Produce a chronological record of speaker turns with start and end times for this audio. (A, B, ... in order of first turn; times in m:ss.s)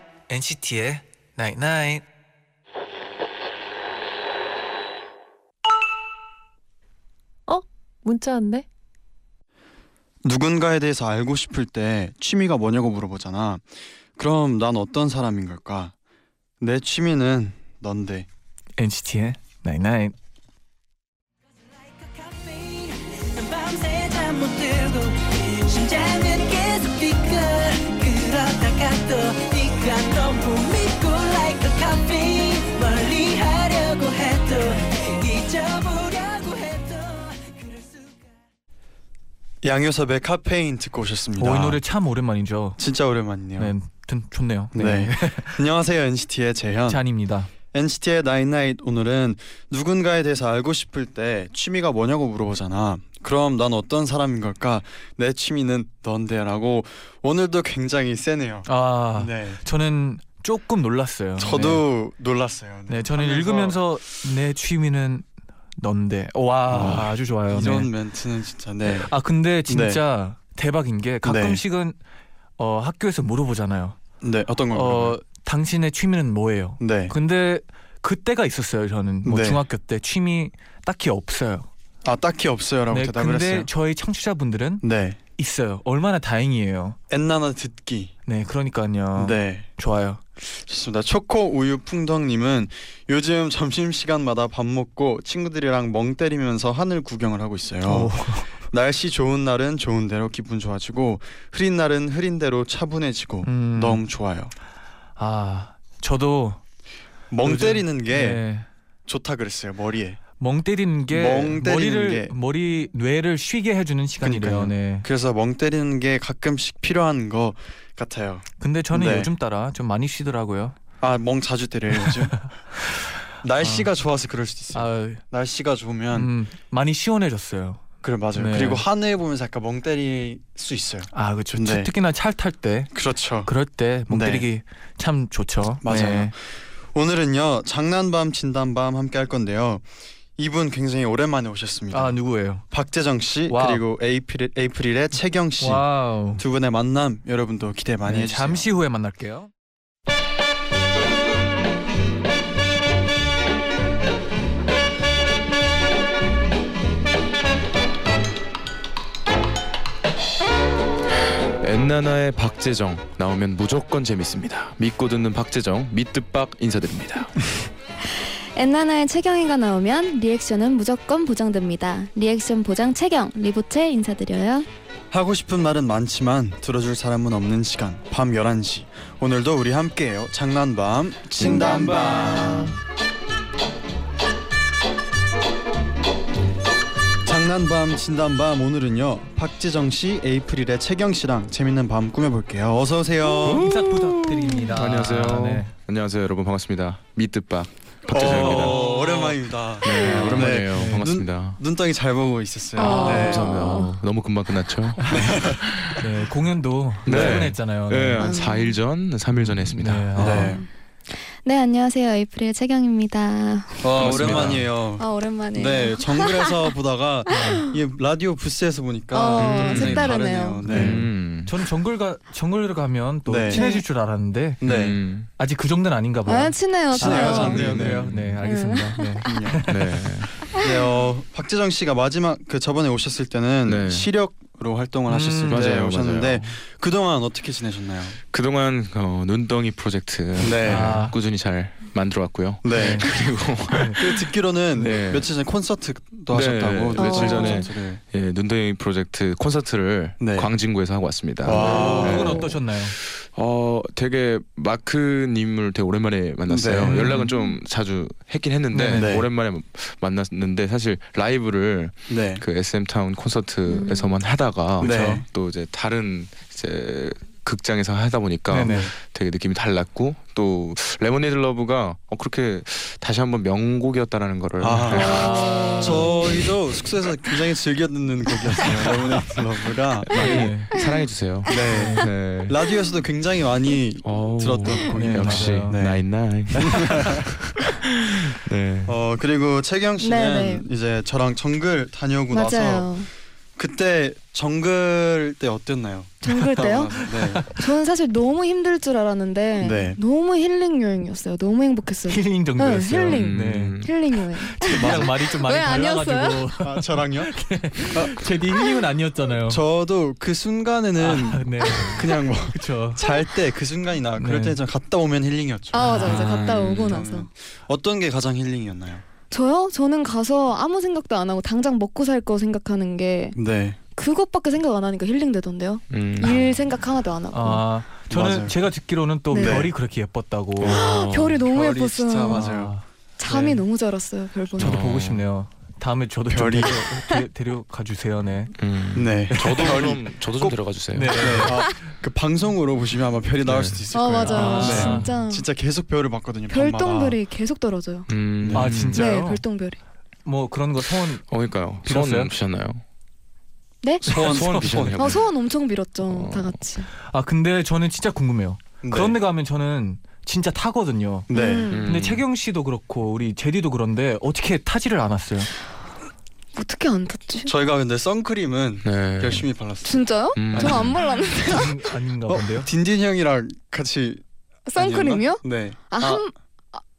0:00.3-0:02.0 A
0:07.5-0:08.6 B
0:10.2-0:15.9 C
0:16.6-0:18.3 C
0:18.8-0:20.1 A
0:21.8-0:38.3 B
0:39.6-0:41.8 C
0:41.4-0:42.8 A
0:42.8-0:43.7 C
0:43.6-0:45.6 A
0:44.7-0:47.0 C
0:46.9-0:47.5 A
0:47.7-0:59.6 C
0:58.6-1:01.8 A
1:01.4-1:03.8 C
1:02.9-1:07.9 A
1:06.7-1:09.1 C
1:06.7-1:07.1 D
1:08.8-1:12.0 A
1:09.7-1:10.0 C
1:11.2-1:11.6 C
1:12.6-1:14.0 A
1:14.2-1:15.2 C
1:14.7-1:21.7 A
1:16.8-1:17.1 C
1:19.2-1:19.6 C
1:22.0-1:23.7 C
1:22.9-1:24.8 A
1:24.8-1:25.2 C
1:25.4-1:27.0 A
1:27.1-1:28.1 C
1:28.2-1:30.2 A
1:29.2-1:29.7 C
1:30.5-1:44.5 C
1:37.8-1:38.6 A
1:43.4-1:44.0 A
1:45.2-1:46.6 A
1:47.3-1:48.4 C
1:47.4-1:48.6 A
1:49.0-1:50.2 C
1:50.4-1:55.1 A
1:51.1-1:52.3 C
1:54.2-1:59.3 C
1:58.6-2:00.8 A
2:01.0-2:02.4 C
2:03.4-2:06.3 C
2:03.6-2:03.9 A
2:04.7-2:05.2 A
2:06.1-2:08.8 A
2:08.0-2:11.9 C
2:11.1-2:12.9 A
2:12.9-2:13.5 C
2:13.4-2:16.3 A
2:14.1-2:14.5 C
2:15.8-2:16.3 C
2:16.9-2:19.8 C
2:20.4-2:22.2 C
2:21.9-2:22.6 A
2:22.7-2:28.7 C
2:23.5-2:23.8 A
2:25.6-2:26.4 A
2:28.1-2:29.5 A
2:41.6-2:47.5 D
2:48.1-2:54.7 E
2:55.1-3:02.7 C
3:01.3-3:02.6 D
3:01.4-3:02.4 E
3:07.2-3:13.7 C
3:13.4-3:18.9 D
3:13.6-3:15.7 A
3:18.1-3:23.6 C
3:18.1-3:19.4 A
3:19.8-3:21.6 D
3:20.2-3:21.0 A
3:22.8-3:23.9 E
3:22.8-3:26.0 D
3:25.0-3:25.4 A
3:25.0-3:25.6 C
3:25.9-3:28.3 A
3:27.0-3:27.5 C
3:27.0-3:30.6 D
3:28.2-3:28.8 E
3:29.3-3:30.5 A
3:30.2-3:30.6 C
3:30.3-3:30.7 E
3:31.4-3:33.9 E
3:33.8-3:41.0 C
3:34.0-3:34.7 D
3:34.0-3:34.7 A
3:35.0-3:36.7 E
3:37.3-3:37.6 A
3:39.1-3:40.6 E
3:39.4-3:40.2 D
3:40.6-3:44.6 A
3:40.7-3:41.5 D
3:43.3-3:43.6 C
3:43.5-3:43.8 E
3:44.6-3:45.0 C
3:44.6-3:45.3 D
3:45.4-3:50.1 A
3:46.2-3:47.7 E
3:46.9-3:48.1 C
3:46.9-3:48.4 D
3:48.4-3:49.2 E
3:49.2-3:49.7 C
3:49.7-3:50.3 D
3:50.6-3:58.2 C
3:53.6-3:54.1 D
3:55.1-3:55.8 A
3:55.4-3:56.5 D
3:58.3-4:05.3 D
4:00.4-4:01.0 C
4:00.6-4:01.2 A
4:02.6-4:03.1 C
4:02.7-4:03.1 A
4:03.7-4:04.0 A
4:03.8-4:08.0 C
4:06.3-4:35.4 D
4:07.0-4:07.7 E
4:10.2-4:10.5 C
4:11.4-4:12.4 C
4:11.4-4:13.0 A
4:11.5-4:12.5 E
4:16.5-4:17.1 C
4:16.8-4:17.3 A
4:18.7-4:19.2 A
4:18.9-4:19.3 C
4:22.1-4:22.4 C
4:23.7-4:24.2 E
4:24.8-4:25.2 C
4:24.8-4:25.2 A
4:28.5-4:28.9 A
4:28.6-4:28.9 C
4:34.6-4:40.3 C
4:34.7-4:36.2 A
4:34.9-4:36.2 E
4:38.6-4:38.9 A
4:40.0-4:42.6 D
4:40.1-4:40.7 A
4:41.4-4:47.3 C
4:41.7-4:42.0 A
4:44.0-4:49.0 D
4:44.9-4:45.8 A
4:48.8-4:52.9 C
4:50.0-4:50.6 E
4:52.3-4:53.1 E
4:53.6-4:57.5 C
4:56.2-5:06.4 E
4:56.3-4:57.6 A
4:59.6-5:00.0 C
5:02.1-5:03.8 A
5:03.1-5:04.2 D
5:04.4-5:09.6 A
5:06.6-5:08.2 C
5:09.4-5:19.0 C
5:11.0-5:13.0 A
5:14.2-5:14.6 A
5:15.7-5:17.3 E
5:15.8-5:16.4 A
5:16.0-5:17.1 D
5:19.3-5:23.4 E
5:23.4-5:23.8 C
5:23.9-5:27.6 E
5:25.9-5:26.4 D
5:27.3-5:30.8 A
5:28.1-5:28.6 C
5:29.3-5:29.7 E
5:29.3-5:29.7 C
5:30.6-5:31.4 D
5:30.6-5:32.5 E
5:31.5-5:32.7 C
5:32.3-5:33.6 A
5:33.2-5:34.8 E
5:34.6-5:35.2 D
5:34.6-5:38.5 A
5:36.3-5:36.8 C
5:38.6-5:41.6 D
5:38.9-5:40.6 C
5:39.4-5:39.7 A
5:40.9-5:41.7 A
5:41.1-5:47.2 C
5:43.4-5:43.8 D
5:43.9-5:45.5 E
5:44.2-5:45.1 A
5:44.4-5:44.9 D
5:46.5-5:48.1 E
5:48.1-5:49.1 D
5:48.4-5:49.0 C
5:48.5-5:49.4 A
5:48.9-5:49.8 E
5:50.2-5:51.2 A
5:51.3-5:52.8 D
5:51.8-5:52.3 A
5:53.8-5:54.1 E
5:54.0-5:55.0 C
5:54.1-5:55.3 D
5:54.1-5:54.7 A
5:55.0-5:56.9 E
5:56.1-5:56.6 D
5:57.0-6:01.3 A
5:58.8-5:59.2 C
6:01.3-6:01.8 C
6:01.3-6:01.8 E
6:01.7-6:02.2 D
6:01.8-6:05.5 A
6:06.6-6:07.5 E
6:07.4-6:10.9 C
6:08.8-6:09.5 D
6:09.8-6:11.8 E
6:10.4-6:11.1 D
6:11.4-6:12.7 A
6:12.3-6:14.2 C
6:14.7-6:16.8 E
6:14.8-6:16.2 C